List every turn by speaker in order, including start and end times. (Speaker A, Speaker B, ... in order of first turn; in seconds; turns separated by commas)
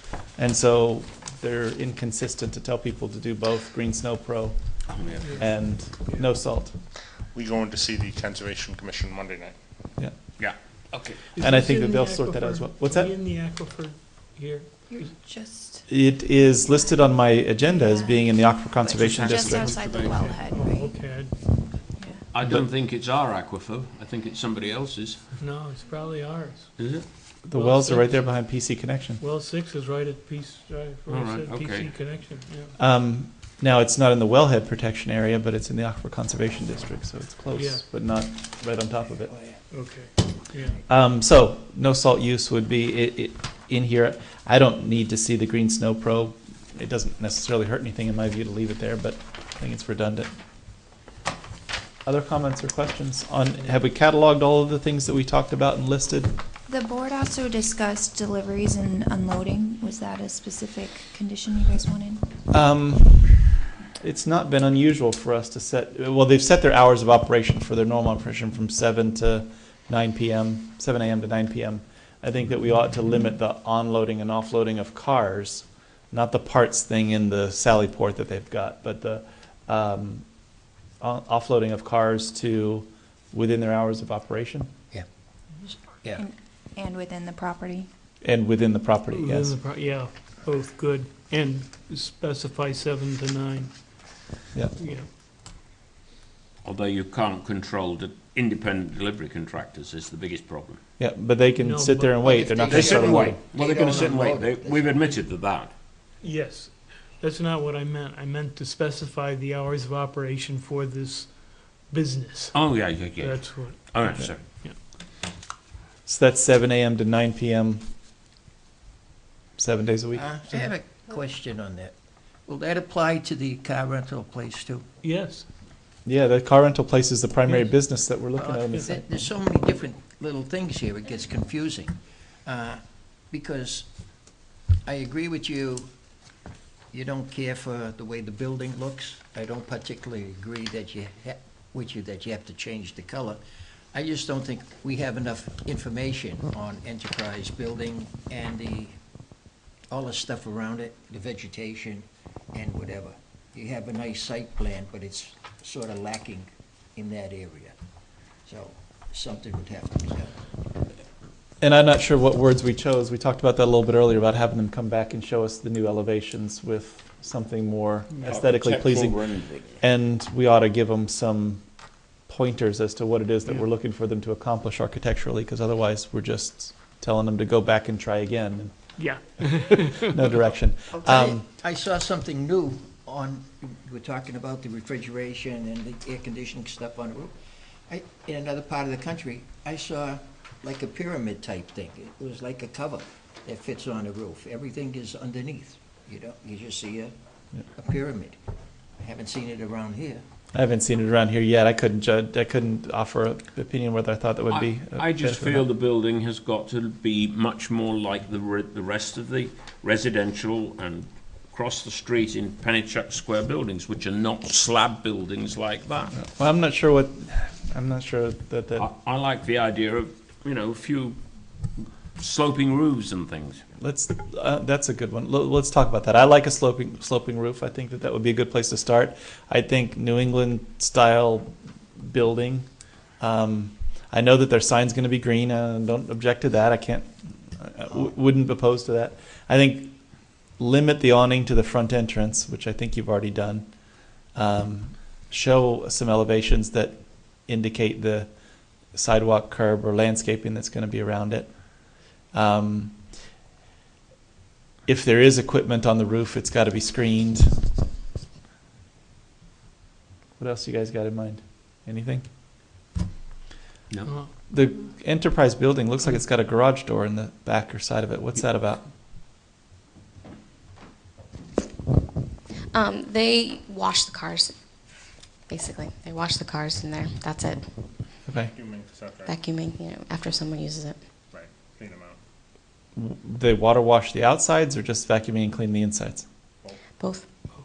Speaker A: 0.4-4.6, Speaker B: 4.9-5.4, Speaker C: 5.2-6.3, Speaker A: 5.4-6.8, Speaker D: 7.3-9.6, Speaker B: 10.4-11.2, Speaker C: 11.3-15.1, Speaker A: 11.4-13.1, Speaker E: 14.9-21.2, Speaker A: 15.9-19.8, Speaker B: 19.0-20.4, Speaker C: 20.2-21.4, Speaker E: 21.9-22.2, Speaker B: 22.3-25.2, Speaker C: 25.4-26.7, Speaker B: 26.8-27.1, Speaker A: 27.4-29.2, Speaker C: 27.5-28.7, Speaker C: 29.2-32.8, Speaker B: 31.1-31.9, Speaker A: 32.8-39.3, Speaker C: 37.5-37.9, Speaker C: 39.7-40.8, Speaker A: 40.9-50.3, Speaker A: 52.0-56.4, Speaker E: 56.7-62.3, Speaker A: 62.5-63.5, Speaker A: 64.0-80.3, Speaker A: 81.0-84.7, Speaker F: 85.6-86.2, Speaker E: 86.2-87.9, Speaker A: 88.2-89.6, Speaker C: 89.1-94.2, Speaker C: 94.7-95.1, Speaker B: 96.7-100.8, Speaker A: 101.0-103.4, Speaker C: 101.6-102.3, Speaker F: 102.2-105.2, Speaker B: 102.7-105.7, Speaker C: 106.2-114.8, Speaker B: 112.5-114.4, Speaker A: 116.1-117.9, Speaker A: 119.6-120.2, Speaker F: 120.1-122.0, Speaker F: 122.5-124.8, Speaker C: 125.0-125.5, Speaker A: 126.1-129.1, Speaker C: 127.5-127.8, Speaker F: 128.4-133.9, Speaker F: 134.8-135.9, Speaker F: 136.9-143.4, Speaker F: 143.9-149.0, Speaker F: 149.9-157.8, Speaker F: 158.5-160.3, Speaker A: 161.6-171.7, Speaker B: 168.2-169.8, Speaker A: 172.2-178.8, Speaker C: 179.0-180.2, Speaker A: 180.0-181.4, Speaker F: 180.9-187.3, Speaker F: 187.9-197.1, Speaker F: 197.7-198.4, Speaker F: 199.0-200.2, Speaker A: 200.5-205.7, Speaker B: 204.5-216.2, Speaker A: 216.1-218.9, Speaker B: 218.8-221.2, Speaker B: 221.8-223.6, Speaker A: 223.8-253.1, Speaker A: 254.9-257.6, Speaker A: 260.4-262.3, Speaker C: 264.1-264.3, Speaker A: 264.5-268.9, Speaker G: 272.7-274.5, Speaker G: 275.5-277.7, Speaker A: 278.3-278.5, Speaker D: 278.5-279.4, Speaker G: 279.3-281.0, Speaker D: 281.3-282.2, Speaker A: 283.0-286.3, Speaker G: 287.0-287.3